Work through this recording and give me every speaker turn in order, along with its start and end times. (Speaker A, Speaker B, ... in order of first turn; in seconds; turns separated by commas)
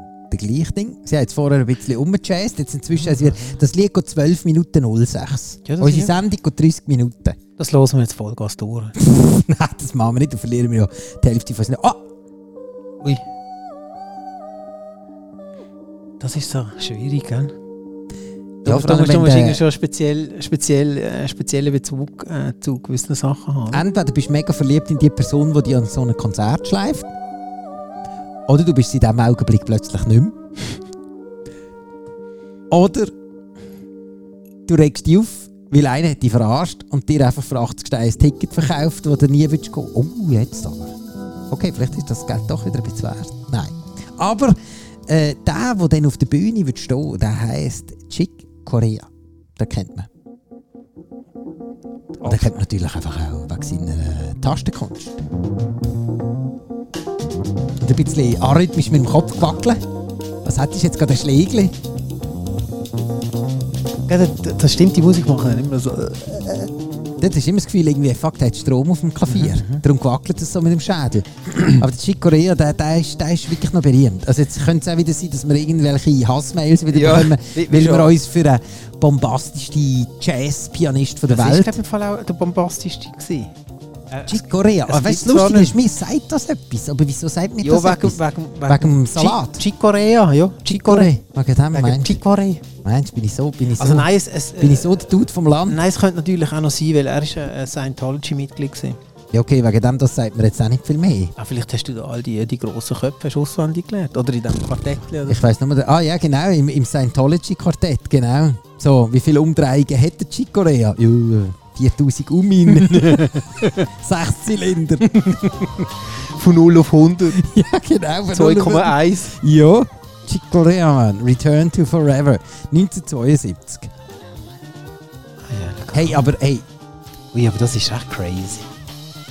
Speaker A: 0.2-7.4, Speaker B: 3.1-3.5, Speaker B: 5.6-6.1, Speaker B: 7.6-8.9, Speaker A: 9.0-12.0, Speaker B: 16.2-17.5, Speaker A: 18.6-19.6, Speaker B: 18.6-23.8, Speaker A: 23.7-27.1, Speaker A: 28.5-30.4, Speaker A: 32.7-33.1, Speaker A: 34.7-41.0, Speaker A: 41.5-50.1, Speaker B: 52.2-52.6, Speaker A: 52.2-55.2, Speaker A: 57.8-59.8, Speaker A: 60.4-61.8, Speaker B: 64.1-66.7, Speaker A: 67.2-81.8, Speaker B: 69.3-69.8, Speaker B: 76.9-78.1, Speaker B: 81.3-83.5, Speaker B: 84.1-85.8, Speaker A: 84.2-89.6, Speaker B: 87.6-91.1, Speaker A: 90.7-92.2, Speaker B: 91.7-92.6, Speaker A: 92.8-95.8, Speaker B: 93.8-95.0, Speaker B: 95.7-99.0, Speaker A: 99.3-101.3, Speaker B: 101.4-105.5, Speaker A: 105.2-115.4, Speaker B: 112.7-113.8, Speaker B: 115.1-117.4, Speaker A: 117.3-123.9, Speaker B: 118.3-119.3, Speaker B: 125.4-126.2, Speaker A: 125.9-126.7, Speaker B: 127.3-128.7